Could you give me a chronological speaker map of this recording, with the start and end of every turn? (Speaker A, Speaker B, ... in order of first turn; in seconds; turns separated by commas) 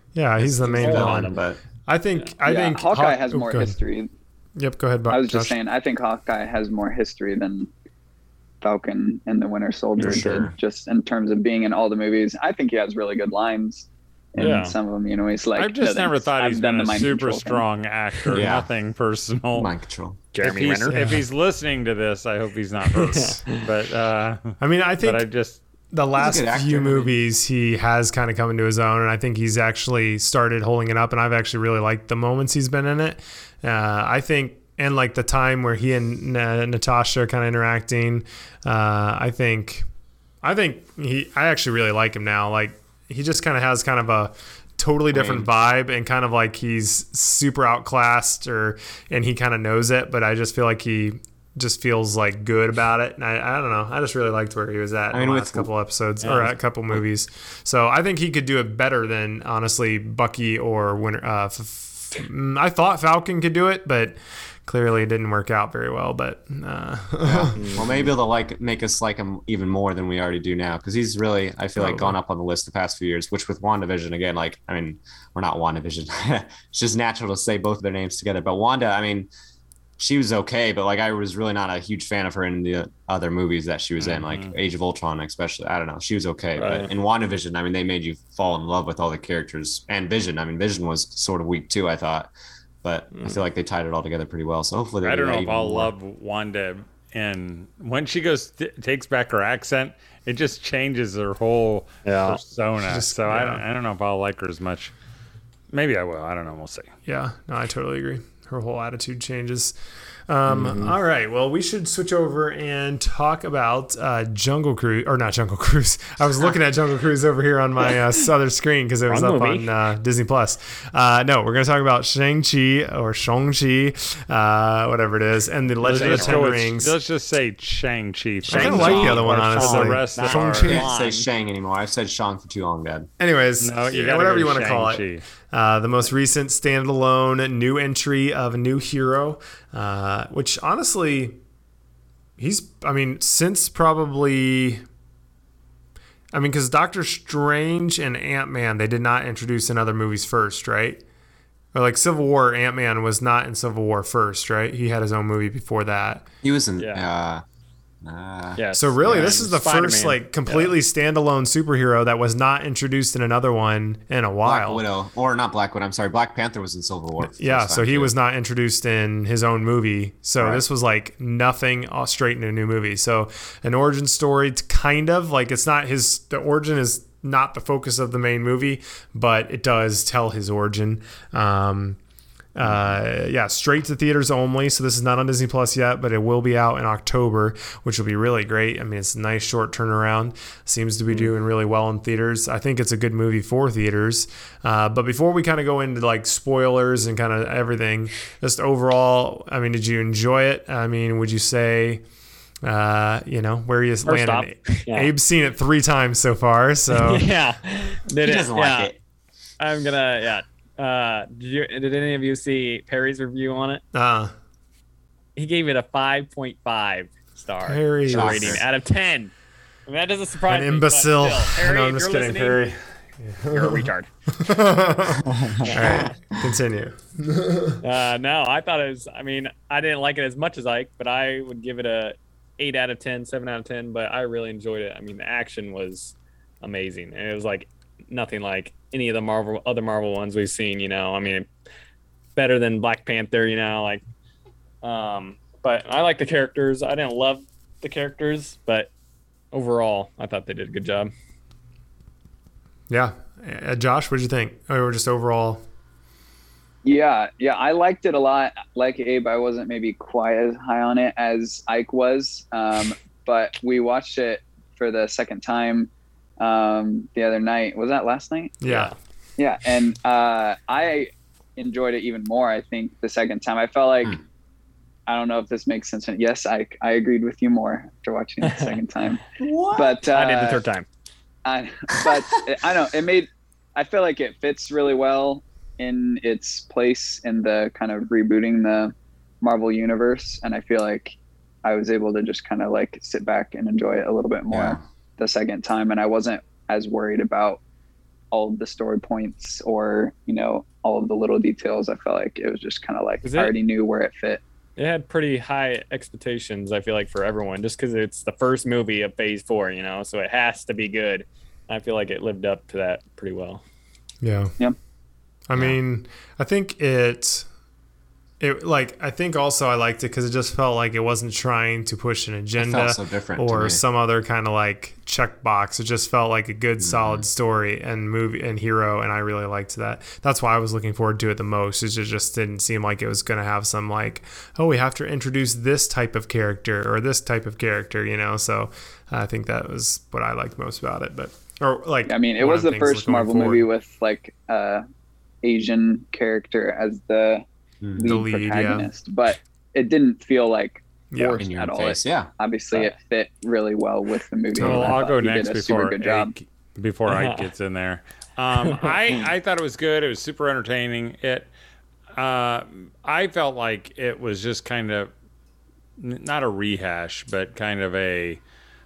Speaker A: 0.1-3.8, Speaker B: 0.4-1.6, Speaker C: 0.6-1.4, Speaker D: 2.5-4.1, Speaker A: 4.6-5.6, Speaker D: 5.1-7.7, Speaker D: 8.6-17.6, Speaker B: 10.0-10.6, Speaker C: 10.0-10.3, Speaker C: 14.4-14.8, Speaker E: 15.6-19.7, Speaker B: 18.3-18.7, Speaker B: 19.6-20.2, Speaker C: 20.3-21.2, Speaker E: 20.4-25.6, Speaker A: 20.9-21.2, Speaker C: 22.9-23.6, Speaker A: 24.6-25.2, Speaker A: 25.9-39.9, Speaker B: 26.2-27.1, Speaker A: 40.4-67.7, Speaker B: 45.1-45.5, Speaker B: 55.1-55.7, Speaker C: 56.2-56.5, Speaker B: 67.2-79.3, Speaker C: 67.5-68.1, Speaker B: 80.0-92.3, Speaker E: 84.0-84.5, Speaker C: 86.6-86.9, Speaker B: 92.8-95.9, Speaker E: 95.0-104.9, Speaker C: 102.0-102.4, Speaker A: 102.9-103.6, Speaker E: 105.7-106.9, Speaker A: 107.1-109.8, Speaker A: 110.3-126.9, Speaker C: 110.5-111.0, Speaker C: 119.1-119.7, Speaker C: 125.8-126.5, Speaker E: 125.8-130.7, Speaker A: 128.5-130.9, Speaker C: 128.5-131.3, Speaker B: 130.7-133.1, Speaker A: 133.2-141.4, Speaker E: 133.6-135.2, Speaker A: 142.4-144.8, Speaker A: 146.3-151.0, Speaker A: 151.7-156.3, Speaker B: 156.4-157.4, Speaker C: 156.8-157.1, Speaker B: 158.0-158.6, Speaker C: 158.6-160.8, Speaker A: 158.7-164.8, Speaker B: 164.4-168.1, Speaker A: 167.2-182.0, Speaker B: 170.4-170.6, Speaker A: 182.6-202.0, Speaker B: 182.6-183.0, Speaker A: 202.6-207.2, Speaker C: 204.1-205.1, Speaker C: 206.9-208.9, Speaker B: 208.2-209.0, Speaker C: 209.6-213.8, Speaker A: 213.9-214.3, Speaker C: 215.4-219.3, Speaker A: 217.7-218.6, Speaker B: 218.1-218.6, Speaker C: 219.9-222.6, Speaker A: 220.5-227.8, Speaker C: 223.5-224.1, Speaker B: 225.2-226.4, Speaker C: 225.6-226.2, Speaker C: 227.8-241.5, Speaker C: 242.4-244.0, Speaker C: 244.8-248.9, Speaker C: 249.5-251.1, Speaker A: 252.9-255.6, Speaker D: 256.8-268.6, Speaker A: 268.6-268.9, Speaker C: 268.6-268.9, Speaker D: 269.4-274.2, Speaker D: 275.1-279.2, Speaker C: 278.4-278.8, Speaker B: 279.4-280.0, Speaker D: 279.7-280.6, Speaker C: 280.1-280.9, Speaker D: 281.4-297.6, Speaker B: 294.5-294.8, Speaker D: 298.3-304.4, Speaker C: 303.2-303.5, Speaker C: 304.8-313.6, Speaker A: 314.2-314.5, Speaker A: 315.5-317.5, Speaker A: 318.4-343.7, Speaker B: 322.6-323.8, Speaker B: 326.8-327.2, Speaker D: 342.1-344.8, Speaker D: 345.4-347.4, Speaker B: 347.8-348.2, Speaker D: 348.0-356.3, Speaker A: 348.1-348.9, Speaker A: 351.1-351.4, Speaker B: 351.4-352.3, Speaker E: 354.6-361.5, Speaker B: 354.6-354.9, Speaker C: 357.1-357.5, Speaker C: 358.6-359.2, Speaker E: 362.2-365.1, Speaker E: 366.0-368.4